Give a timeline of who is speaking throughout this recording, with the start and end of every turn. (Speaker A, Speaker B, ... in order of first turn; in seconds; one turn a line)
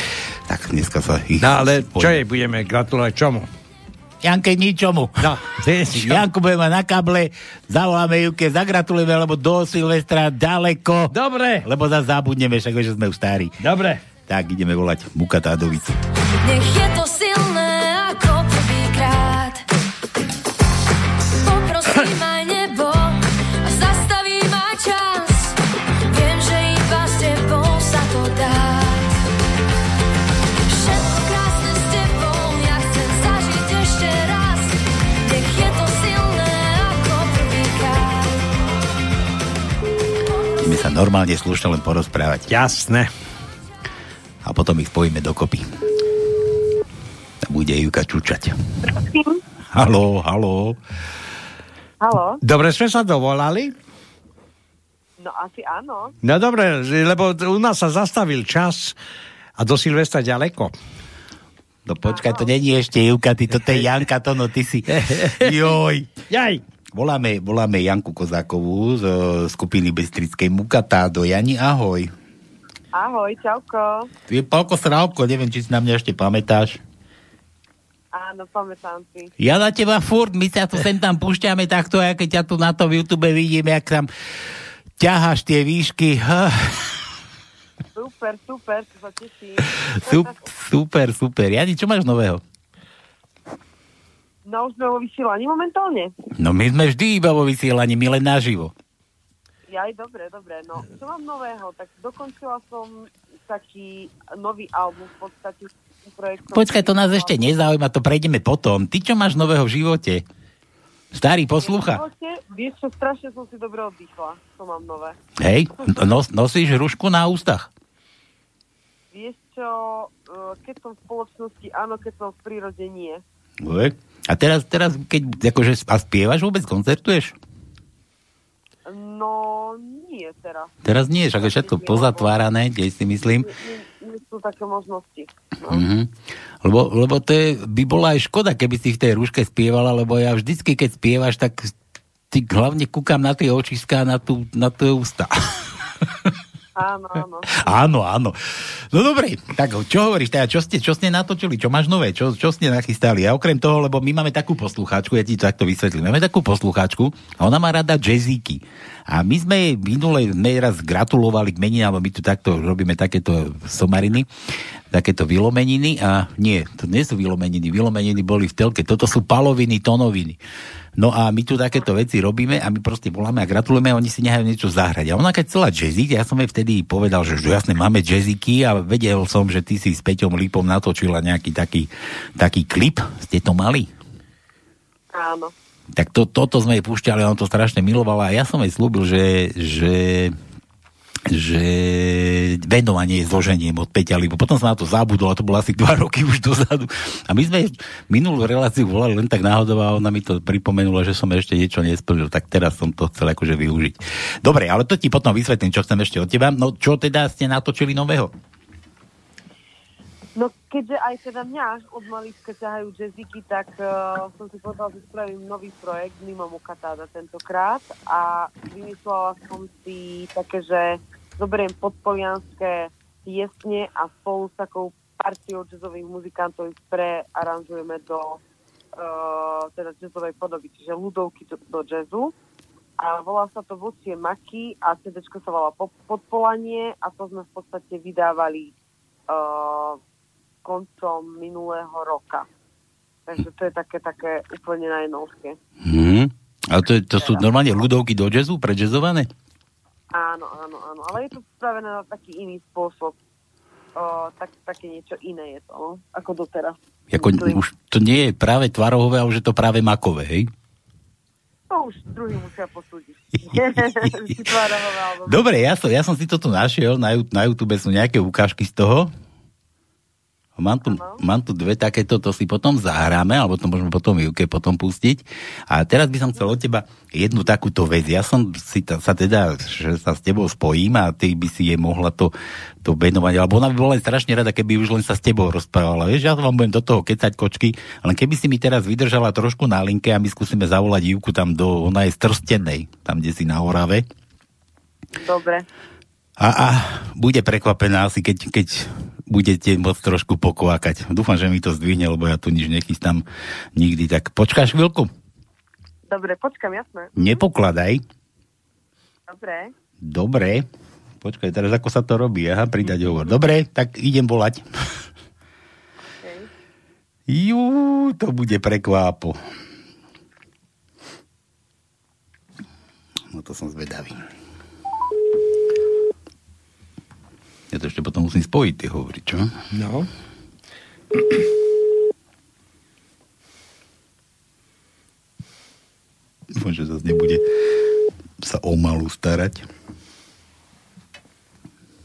Speaker A: 0.5-2.2
Speaker B: 1.4-3.5
Speaker A: 4.2-5.3
Speaker B: 5.2-6.2
Speaker A: 5.9-11.1
Speaker B: 11.1-11.7
Speaker A: 11.6-13.6
Speaker B: 13.6-14.0
Speaker A: 14.3-16.0
Speaker C: 16.4-19.7
Speaker C: 21.4-25.6
Speaker C: 26.1-29.2
Speaker C: 30.7-38.5
Speaker A: 40.6-42.5
Speaker B: 42.5-43.1
Speaker A: 44.4-45.7
Speaker A: 47.4-48.5
Speaker D: 49.0-49.4
Speaker A: 49.7-50.8
Speaker D: 52.0-52.4
Speaker B: 52.4-53.7
Speaker D: 55.2-56.1
Speaker B: 56.2-59.0
Speaker B: 59.6-60.7
Speaker A: 61.9-66.1
Speaker D: 62.1-62.5
Speaker B: 64.9-65.5
Speaker B: 66.3-66.6
Speaker A: 66.9-72.1
Speaker D: 72.9-74.1
Speaker A: 74.3-76.8
Speaker D: 78.1-79.3
Speaker A: 79.4-84.1
Speaker A: 85.0-86.7
Speaker D: 88.0-90.3
Speaker A: 90.0-92.4
Speaker D: 94.5-96.1
Speaker A: 96.4-98.7
Speaker D: 99.7-107.5
Speaker A: 106.5-110.2
Speaker A: 111.1-112.0
Speaker D: 111.6-115.2
Speaker A: 115.4-117.7
Speaker D: 115.8-116.1
Speaker D: 119.1-123.2
Speaker A: 123.6-127.4
Speaker D: 128.9-130.7
Speaker A: 130.8-133.5
Speaker D: 131.4-132.4
Speaker D: 133.1-135.8
Speaker A: 135.7-136.1
Speaker A: 136.6-141.7
Speaker A: 142.3-145.3
Speaker D: 146.8-147.5
Speaker A: 147.5-148.4
Speaker A: 148.9-164.3
Speaker A: 164.9-170.4
Speaker A: 171.0-183.9
Speaker D: 185.1-185.5
Speaker A: 185.9-190.4
Speaker A: 191.3-208.3
Speaker D: 210.4-228.4
Speaker D: 229.0-232.3
Speaker D: 233.0-238.7
Speaker D: 239.3-240.0
Speaker D: 240.7-242.5
Speaker D: 243.3-245.6
Speaker A: 245.8-249.3
Speaker D: 247.2-247.8
Speaker D: 250.1-253.2
Speaker D: 254.0-257.6
Speaker A: 257.1-260.5
Speaker D: 261.7-265.4
Speaker A: 263.5-264.4
Speaker A: 265.2-269.1
Speaker A: 270.6-294.1
Speaker D: 270.9-271.2
Speaker D: 295.2-295.7
Speaker A: 296.4-303.2
Speaker A: 303.8-305.1
Speaker D: 306.1-307.4
Speaker A: 307.1-308.0
Speaker D: 309.3-309.7
Speaker A: 310.0-310.7
Speaker A: 311.2-314.7
Speaker D: 316.2-316.5
Speaker A: 317.3-319.4
Speaker A: 323.3-324.2
Speaker A: 327.7-329.5
Speaker B: 329.7-330.1
Speaker A: 336.5-337.4
Speaker A: 338.4-339.7